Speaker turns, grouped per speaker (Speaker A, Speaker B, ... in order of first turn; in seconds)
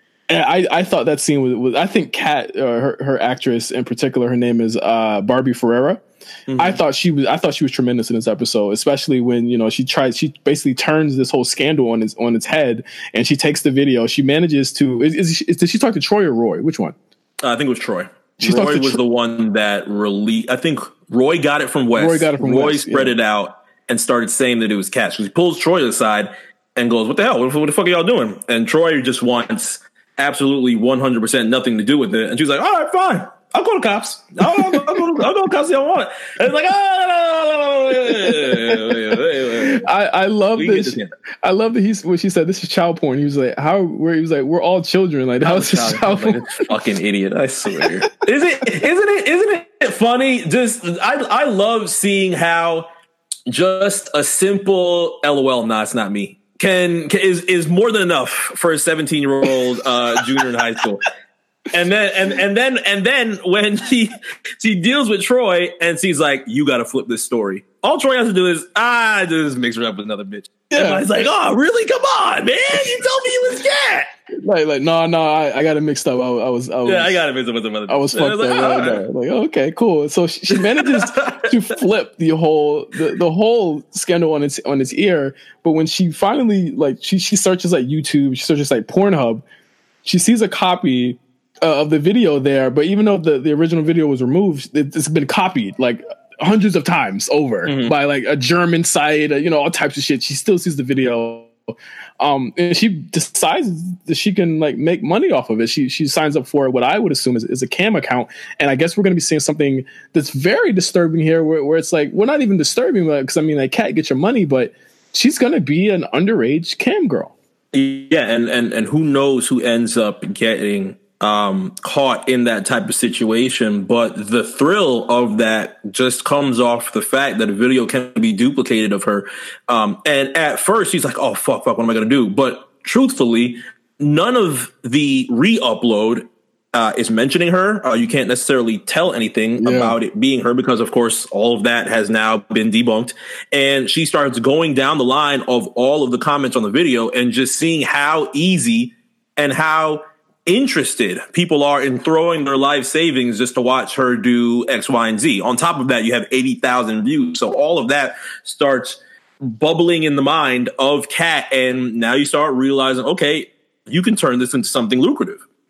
Speaker A: 0.3-6.0, 6.6-16.9, 18.4-19.0, 21.9-23.1, 34.5-35.0, 38.1-46.6, 70.7-71.0, 74.4-77.2, 77.9-89.4, 90.0-101.5, 102.2-117.3, 139.6-140.0
Speaker B: 6.5-6.8, 17.4-39.8, 40.5-41.1, 45.4-52.9, 53.5-61.0, 61.7-74.1, 76.8-79.0, 80.5-81.5, 97.6-97.9, 117.7-165.4